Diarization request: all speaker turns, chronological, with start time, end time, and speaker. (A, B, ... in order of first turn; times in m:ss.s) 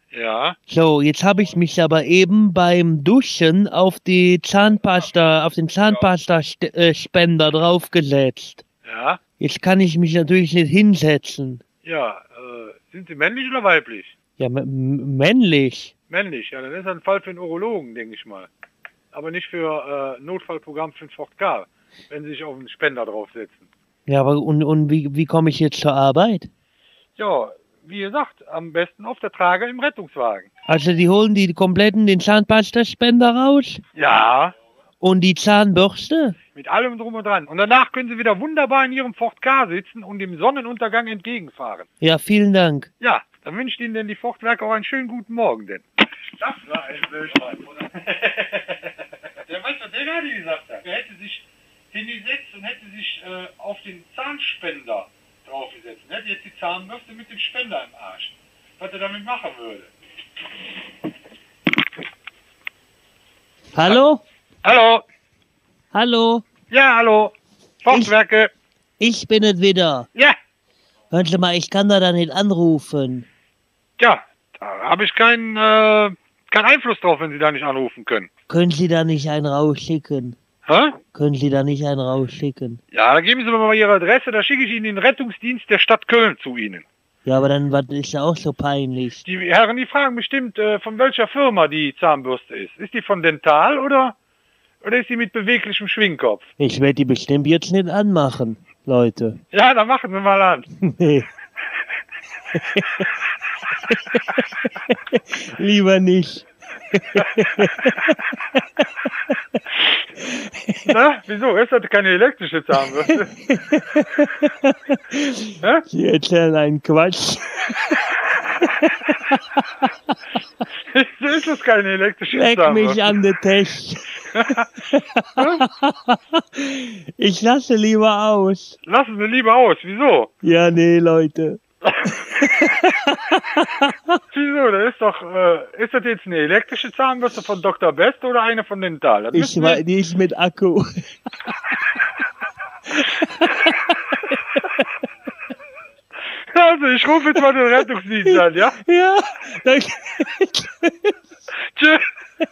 0:00.1-0:00.6 A
0:00.7-0:08.6 B
0:08.8-0:09.2 A
0:09.4-0:11.6 B
0:11.8-0:14.1 A
0:14.4-0:15.9 B
0:16.1-0:18.5 A
0:19.1-0:23.7 A
0:24.1-0:26.5 B
0:27.2-0:30.5 A
0:30.7-0:33.8 B
0:33.9-0:34.5 A
0:35.0-0:36.4 B
0:36.5-0:41.8 A
0:42.0-0:42.9 B
0:43.0-0:48.9 A
0:49.4-0:59.9 A
1:03.7-1:04.2 B
1:04.6-1:05.0 A
1:05.9-1:06.4 B
1:06.7-1:08.5 A
1:09.0-1:10.1 B
1:11.1-1:13.3 B
1:14.0-1:18.3 A
1:18.5-1:20.4 B
1:20.6-1:21.0 A
1:21.1-1:22.8 B
1:22.9-1:26.8 A
1:27.2-1:29.2 B
1:29.2-1:34.1 A
1:34.8-1:36.5 A
1:36.6-1:39.4 B
1:39.5-1:40.7 A
1:40.8-1:41.3 B
1:42.5-1:43.1 B
1:43.9-1:49.4 B
1:50.2-1:50.9 B
1:50.9-1:53.3 A
1:53.1-1:59.9 B
2:00.9-2:03.2 A
2:02.3-2:08.8 B
2:04.3-2:04.6 A
2:08.8-2:10.3 A
2:10.4-2:13.9 B
2:11.8-2:12.1 A
2:14.3-2:19.8 A
2:19.3-2:20.8 B
2:22.9-2:24.6 B
2:26.5-2:28.8 A
2:28.2-2:31.1 B
2:31.8-2:32.0 A